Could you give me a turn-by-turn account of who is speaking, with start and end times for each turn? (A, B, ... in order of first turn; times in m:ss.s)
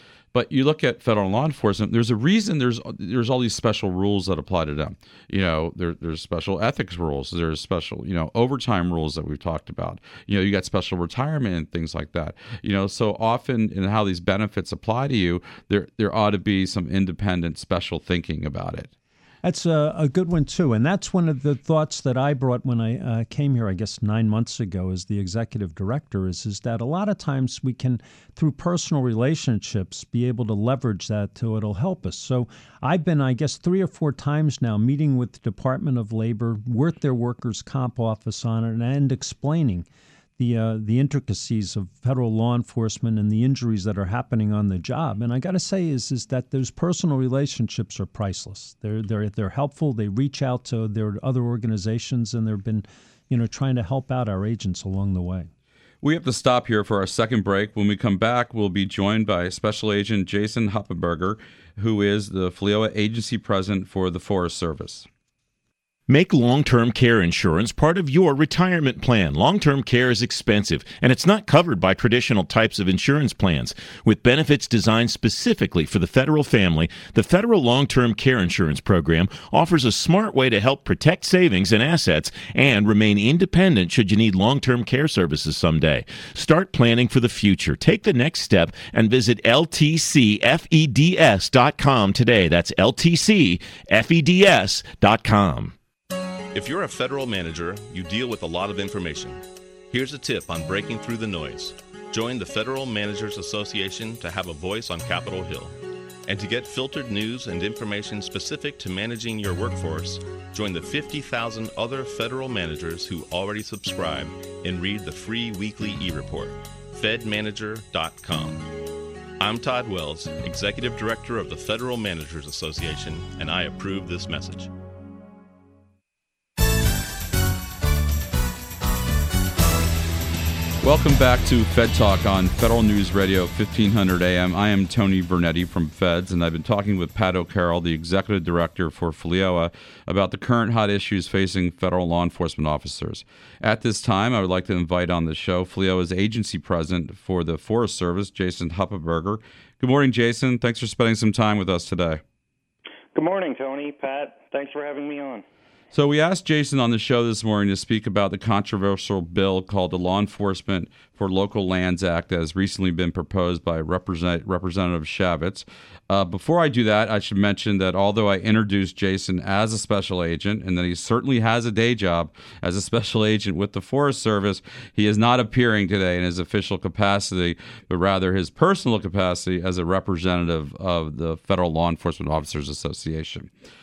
0:00.3-0:18.9 A
0:19.4-0:39.8 B
0:40.4-0:55.5 B
0:56.0-1:05.1 A
1:06.1-1:35.8 C
1:36.5-1:58.8 D
1:59.4-2:04.7 D
2:10.8-2:32.2 A
2:33.1-2:35.4 E
2:35.9-3:03.5 A